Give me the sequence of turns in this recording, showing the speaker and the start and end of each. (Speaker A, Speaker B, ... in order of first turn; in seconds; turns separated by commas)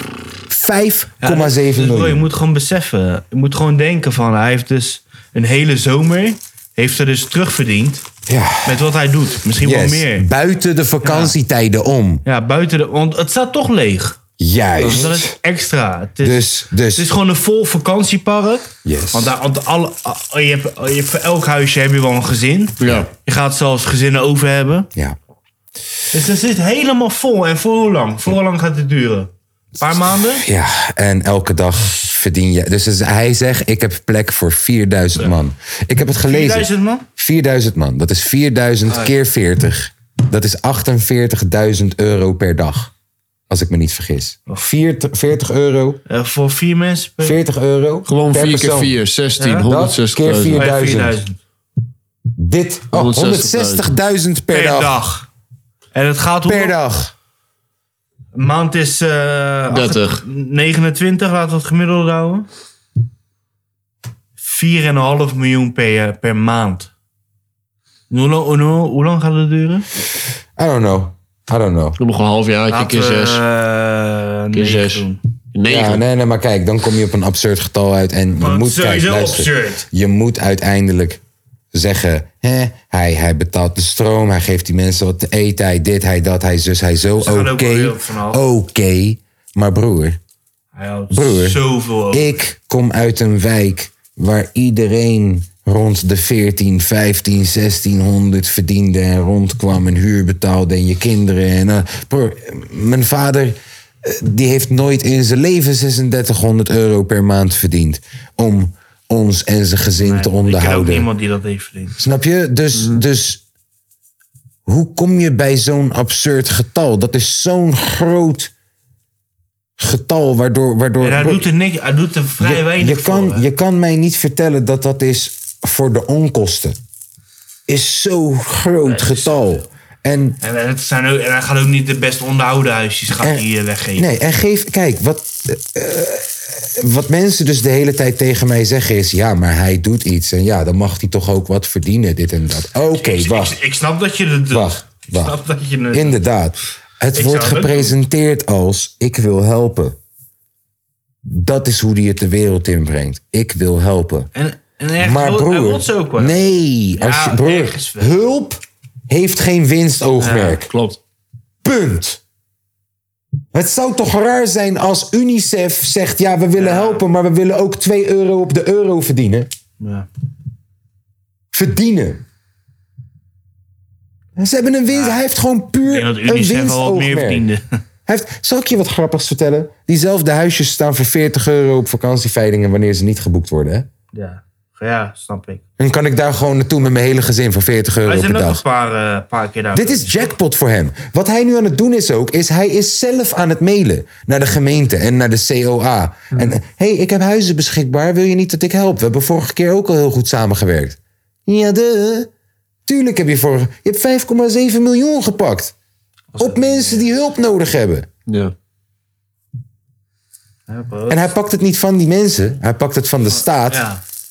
Speaker A: 0.5-2.2, Speaker B: 1.2-8.1, Speaker A: 8.3-8.9, Speaker B: 8.7-10.3, Speaker A: 9.6-12.2, Speaker B: 11.0-11.3, Speaker B: 12.2-14.2, Speaker A: 14.4-15.4, Speaker B: 14.8-24.9, Speaker A: 16.2-17.1, Speaker A: 18.9-19.3, Speaker C: 22.8-23.1, Speaker B: 26.1-30.4, Speaker A: 30.4-42.9, Speaker B: 36.2-37.0, Speaker B: 38.9-39.1, Speaker A: 43.5-46.0, Speaker B: 46.1-47.4, Speaker A: 47.2-49.0, Speaker C: 48.1-50.6, Speaker B: 49.4-49.6, Speaker A: 49.6-51.2, Speaker B: 50.5-51.4, Speaker A: 52.4-55.0, Speaker C: 52.9-53.9, Speaker B: 54.5-55.3, Speaker B: 55.9-56.8, Speaker A: 56.5-57.1, Speaker B: 58.3-62.5, Speaker C: 59.7-60.2, Speaker B: 64.4-66.9, Speaker B: 68.1-69.9, Speaker A: 70.6-72.0, Speaker C: 72.0-73.4, Speaker B: 72.7-75.2, Speaker C: 74.5-76.0, Speaker A: 75.7-81.2, Speaker B: 78.4-79.9, Speaker A: 81.7-90.2, Speaker B: 87.2-88.4, Speaker B: 90.7-92.4, Speaker A: 91.1-111.1, Speaker B: 110.0-112.0, Speaker A: 112.0-113.4, Speaker C: 112.8-113.0, Speaker A: 114.7-118.5, Speaker A: 119.8-121.5, Speaker B: 121.0-123.5, Speaker A: 122.4-126.8, Speaker A: 127.7-130.4, Speaker B: 128.8-129.7, Speaker B: 130.4-134.1, Speaker A: 133.2-143.6, Speaker B: 142.9-146.2, Speaker A: 144.5-145.4, Speaker A: 145.9-150.0, Speaker B: 147.1-148.0, Speaker A: 151.2-154.3, Speaker B: 154.3-156.4, Speaker A: 155.0-160.7, Speaker B: 157.0-158.2, Speaker B: 160.2-160.6, Speaker C: 160.7-161.0, Speaker A: 161.6-162.2, Speaker A: 163.5-169.5, Speaker B: 166.6-167.0, Speaker B: 169.8-170.1, Speaker A: 171.5-172.2, Speaker A: 174.4-177.5, Speaker B: 174.9-175.2, Speaker B: 175.9-177.7, Speaker A: 178.1-183.9, Speaker B: 184.1-185.6, Speaker A: 185.8-188.6, Speaker B: 188.1-190.3, Speaker A: 189.7-202.3, Speaker A: 202.9-205.7, Speaker B: 206.3-207.1, Speaker A: 206.4-208.1, Speaker C: 208.3-208.5, Speaker B: 210.7-211.3, Speaker A: 211.1-213.8, Speaker B: 213.3-214.0